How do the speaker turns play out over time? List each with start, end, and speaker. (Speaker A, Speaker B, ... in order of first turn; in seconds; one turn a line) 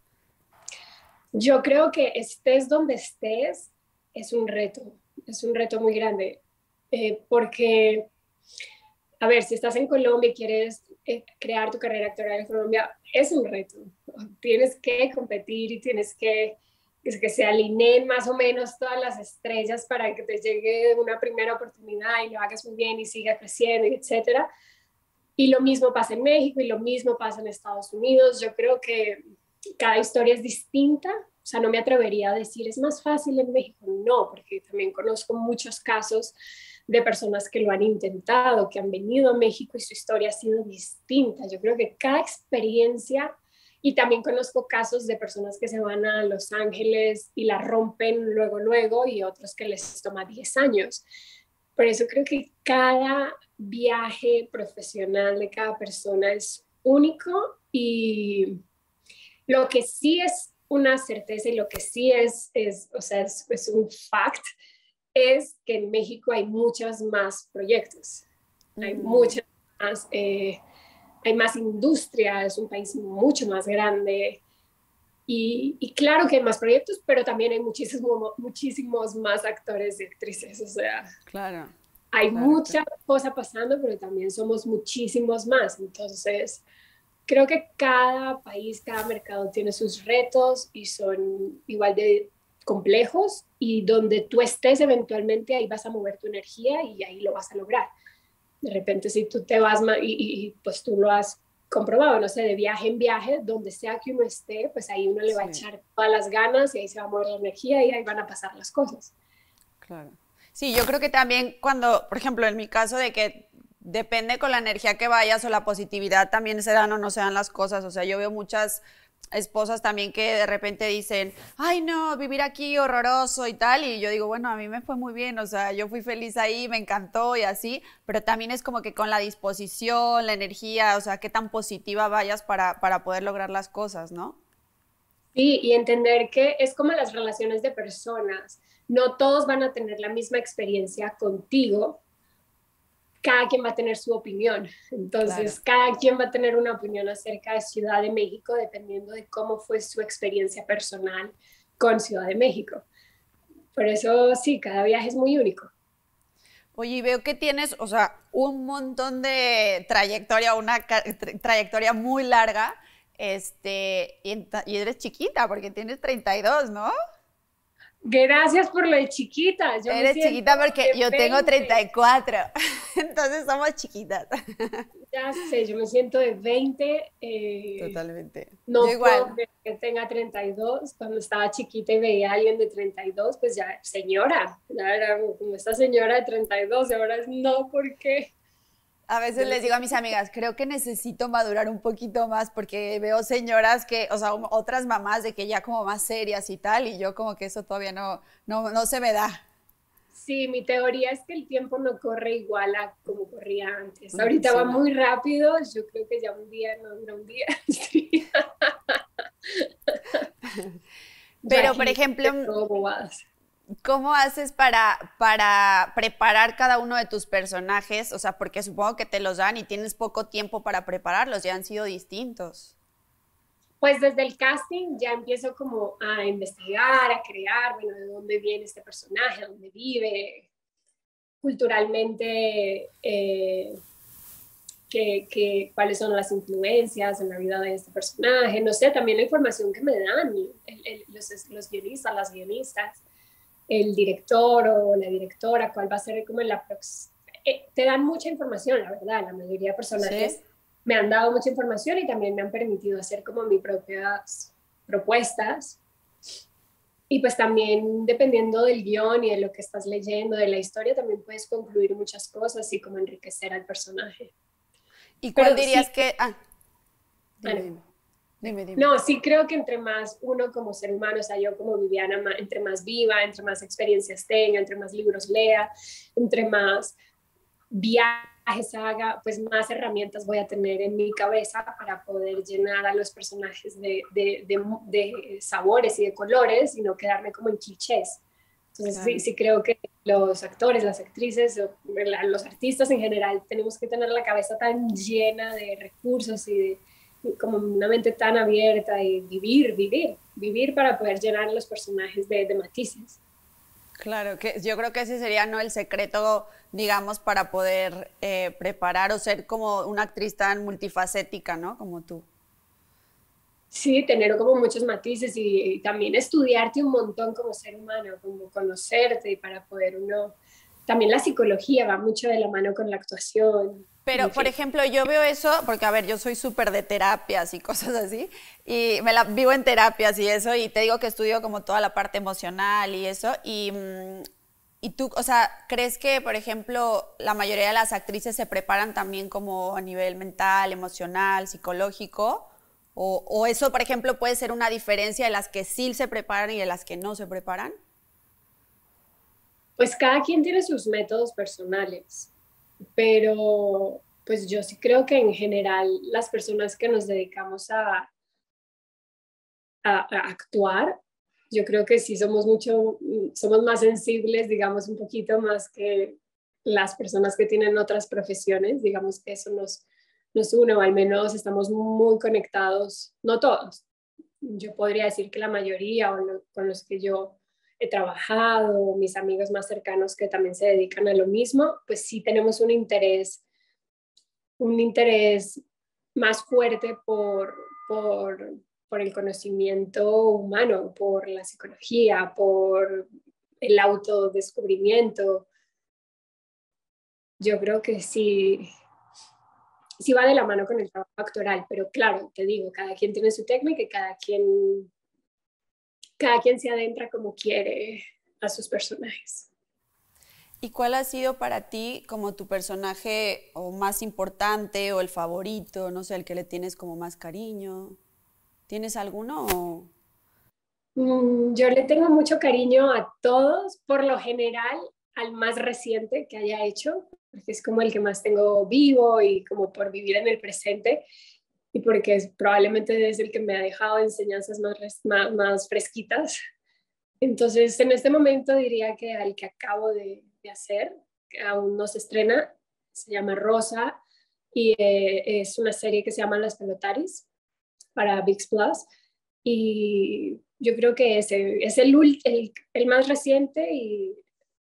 Speaker A: 1.4-8.1
Speaker A: 9.2-24.5
Speaker A: 25.4-29.2
Speaker A: 29.8-36.4
Speaker A: 36.9-51.0
Speaker A: 51.8-58.6
Speaker A: 59.5-64.4
Speaker A: 65.2-68.3
Speaker B: 68.8-69.3
Speaker A: 68.8-70.6
Speaker A: 71.2-74.4
Speaker A: 75.3-81.1
Speaker B: 81.3-81.8
Speaker A: 82.1-86.6
Speaker B: 82.3-82.8
Speaker A: 87.3-97.9
Speaker A: 98.6-109.1
Speaker B: 105.3-105.6
Speaker B: 109.8-134.4
Speaker A: 135.3-142.0
Speaker A: 143.2-152.9
Speaker B: 145.2-145.6
Speaker A: 153.8-155.7
Speaker B: 156.8-166.9
Speaker A: 168.1-171.8
Speaker B: 169.9-174.9
Speaker A: 175.1-178.0
Speaker B: 177.8-179.3
Speaker A: 178.7-188.3
Speaker B: 189.1-199.4
Speaker A: 189.4-190.1
Speaker A: 200.1-210.2
Speaker B: 204.1-204.8
Speaker B: 211.4-212.5
Speaker A: 211.5-213.2
Speaker B: 213.8-222.7
Speaker A: 223.8-230.5
Speaker A: 231.4-233.8
Speaker A: 234.9-243.0
Speaker A: 243.7-255.8
Speaker B: 250.0-250.3
Speaker A: 257.1-264.3
Speaker B: 265.2-266.4
Speaker A: 265.4-266.0
Speaker B: 267.4-267.8
Speaker B: 268.4-268.9
Speaker A: 268.8-277.0
Speaker A: 277.7-288.2
Speaker A: 288.7-303.2
Speaker B: 288.9-289.2
Speaker B: 304.0-312.3
Speaker A: 313.7-324.5
Speaker B: 324.1-334.2
Speaker B: 334.8-347.7
Speaker A: 349.8-352.3
Speaker A: 353.0-358.1
Speaker A: 359.9-361.0
Speaker A: 361.5-373.9
Speaker A: 374.4-383.4
Speaker A: 384.6-385.6
Speaker A: 386.2-393.1
Speaker A: 393.6-395.5
Speaker A: 397.4-398.7
Speaker A: 400.0-404.9
Speaker A: 406.2-409.5
Speaker B: 410.6-418.0
Speaker B: 418.7-419.9
Speaker A: 421.0-431.1
Speaker A: 431.7-436.4
Speaker A: 437.2-444.0
Speaker A: 444.5-447.3
Speaker A: 448.0-448.9
Speaker A: 449.4-454.2